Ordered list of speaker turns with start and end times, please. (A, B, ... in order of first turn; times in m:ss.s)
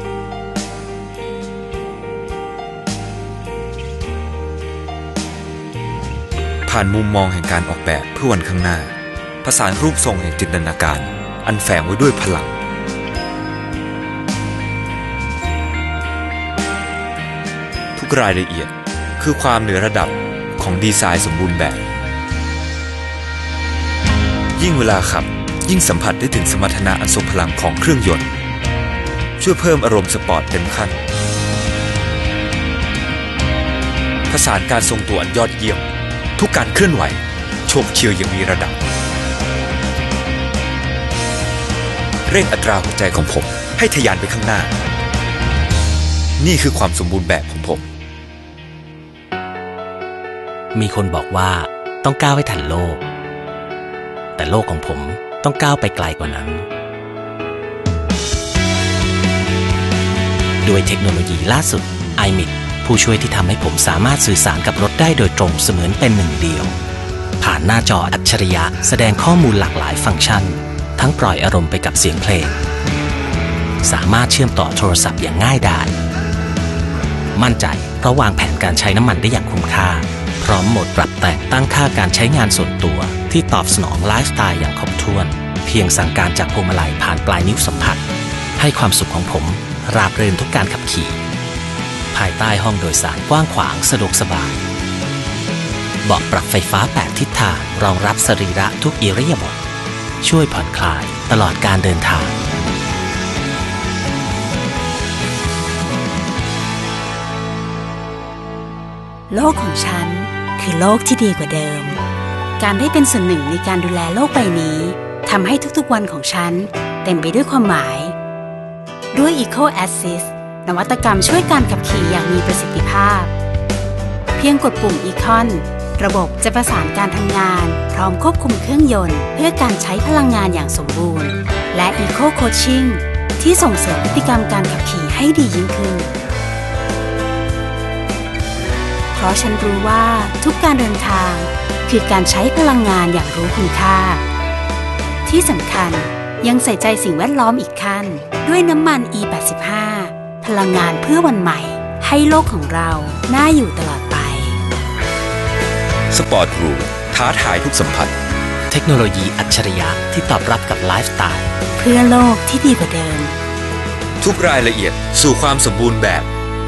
0:06.6-0:12.5 A
0:18.0-0:21.8 A
0:24.6-0:28.3 A
0:29.4-0:31.0 A
0:34.3-0:35.8 A
0:36.4-0:38.8 A
0:42.3-0:44.7 A
0:46.4-0:47.8 A
0:50.7-0:53.0 B
0:54.4-0:56.7 B
1:00.6-1:06.7 B
1:07.4-1:12.6 B
1:13.8-1:15.9 B
1:17.3-1:28.0 B
1:28.6-1:31.2 B
1:32.1-1:34.6 B
1:36.0-1:39.6 B
1:40.2-1:42.3 B
1:49.3-1:52.0 C
1:52.6-1:58.1 C
1:59.1-2:03.3 C
2:04.4-2:16.1 C
2:19.1-2:24.2 C
2:25.2-2:34.6 C
2:36.1-2:38.2 A
2:38.7-2:41.4 B
2:41.8-2:43.3 C
2:44.2-2:46.3 A